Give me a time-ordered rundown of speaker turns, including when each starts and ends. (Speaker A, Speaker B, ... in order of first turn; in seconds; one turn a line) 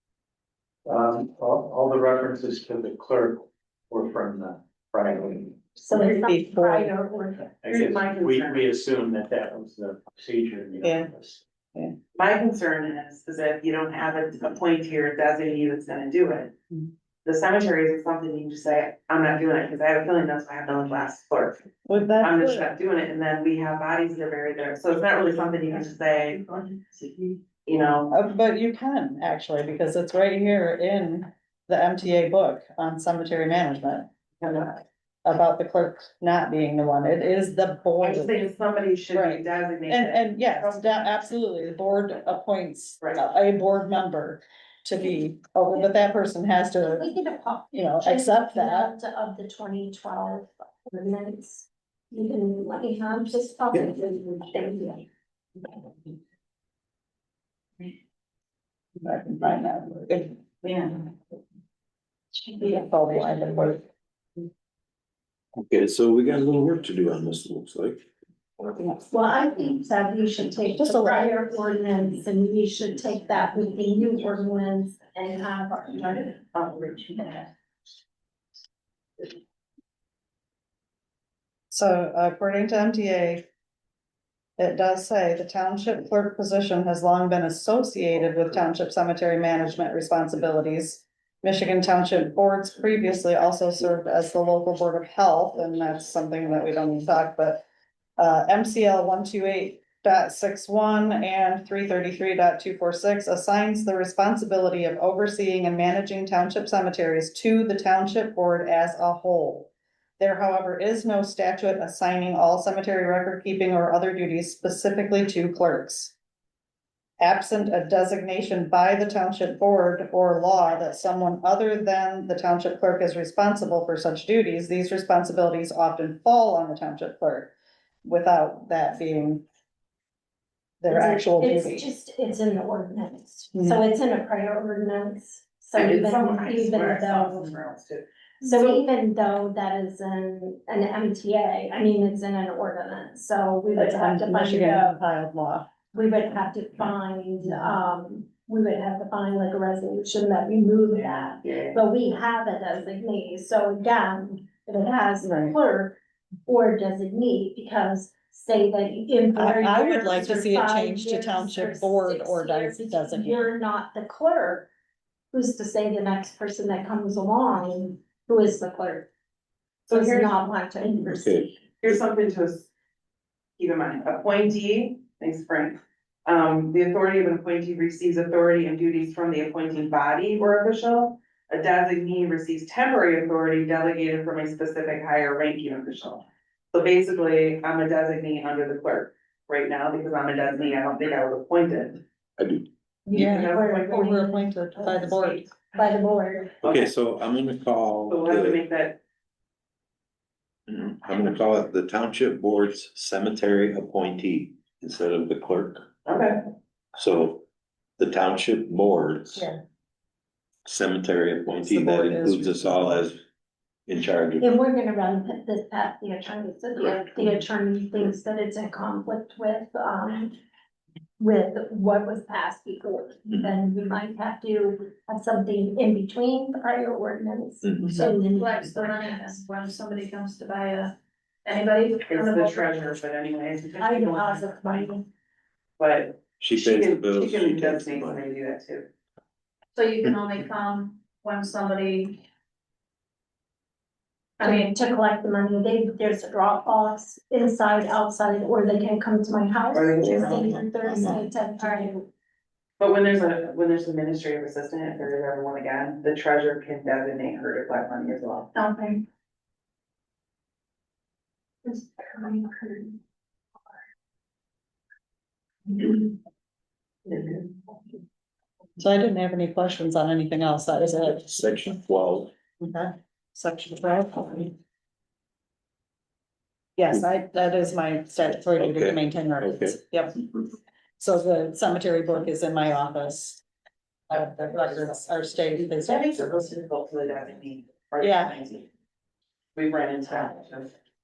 Speaker A: 0.8-5.6
Speaker B: 5.8-7.5
Speaker C: 5.9-6.9
Speaker A: 7.6-11.4
Speaker D: 7.7-8.7
Speaker C: 10.8-11.1
Speaker D: 12.1-16.5
Speaker D: 17.2-21.6
Speaker C: 21.8-22.7
Speaker D: 22.2-28.1
Speaker C: 28.1-34.1
Speaker D: 34.4-34.8
Speaker C: 35.2-38.4
Speaker D: 38.0-41.1
Speaker C: 39.1-47.1
Speaker B: 46.9-55.0
Speaker C: 47.7-48.9
Speaker C: 59.0-61.1
Speaker C: 62.5-63.8
Speaker E: 65.6-68.0
Speaker C: 68.7-69.0
Speaker B: 69.1-76.4
Speaker C: 70.8-71.3
Speaker D: 76.5-77.5
Speaker C: 81.7-83.4
Speaker C: 84.6-97.6
Speaker C: 98.2-116.1
Speaker C: 117.2-129.4
Speaker C: 130.8-131.9
Speaker B: 130.9-137.5
Speaker C: 133.5-133.8
Speaker D: 135.7-138.8
Speaker B: 138.4-144.9
Speaker C: 143.7-145.7
Speaker B: 145.9-164.7
Speaker D: 150.9-151.8
Speaker C: 155.2-155.6
Speaker C: 159.3-163.5
Speaker B: 165.3-169.1
Speaker D: 169.9-170.3
Speaker B: 169.9-171.5
Speaker E: 171.1-171.5
Speaker D: 171.8-172.7
Speaker D: 173.6-192.0
Speaker E: 192.4-192.7
Speaker B: 193.1-194.9
Speaker D: 193.1-194.2
Speaker C: 193.1-195.4
Speaker D: 194.8-195.6
Speaker B: 195.7-196.5
Speaker E: 196.6-198.6
Speaker D: 198.1-199.0
Speaker E: 200.7-205.8
Speaker D: 206.0-206.4
Speaker E: 206.9-207.4
Speaker E: 208.0-209.5
Speaker E: 210.7-213.2
Speaker C: 211.6-213.0
Speaker E: 213.9-214.5
Speaker B: 214.4-220.4
Speaker B: 221.2-229.4
Speaker F: 227.9-232.7
Speaker D: 232.1-234.6
Speaker B: 233.8-235.0
Speaker D: 235.8-238.9
Speaker E: 236.4-238.2
Speaker F: 239.7-242.2
Speaker B: 244.4-252.1
Speaker F: 244.4-244.7
Speaker D: 249.7-250.5
Speaker E: 250.0-251.3
Speaker F: 251.6-251.9
Speaker D: 252.8-258.5
Speaker F: 258.5-259.0
Speaker D: 267.1-267.4
Speaker C: 268.8-271.3
Speaker E: 271.3-272.3
Speaker C: 272.6-274.5
Speaker C: 276.8-280.3
Speaker E: 278.6-279.8
Speaker C: 281.0-283.4
Speaker C: 284.1-286.5
Speaker D: 285.6-288.7
Speaker C: 288.0-288.4
Speaker D: 289.6-290.7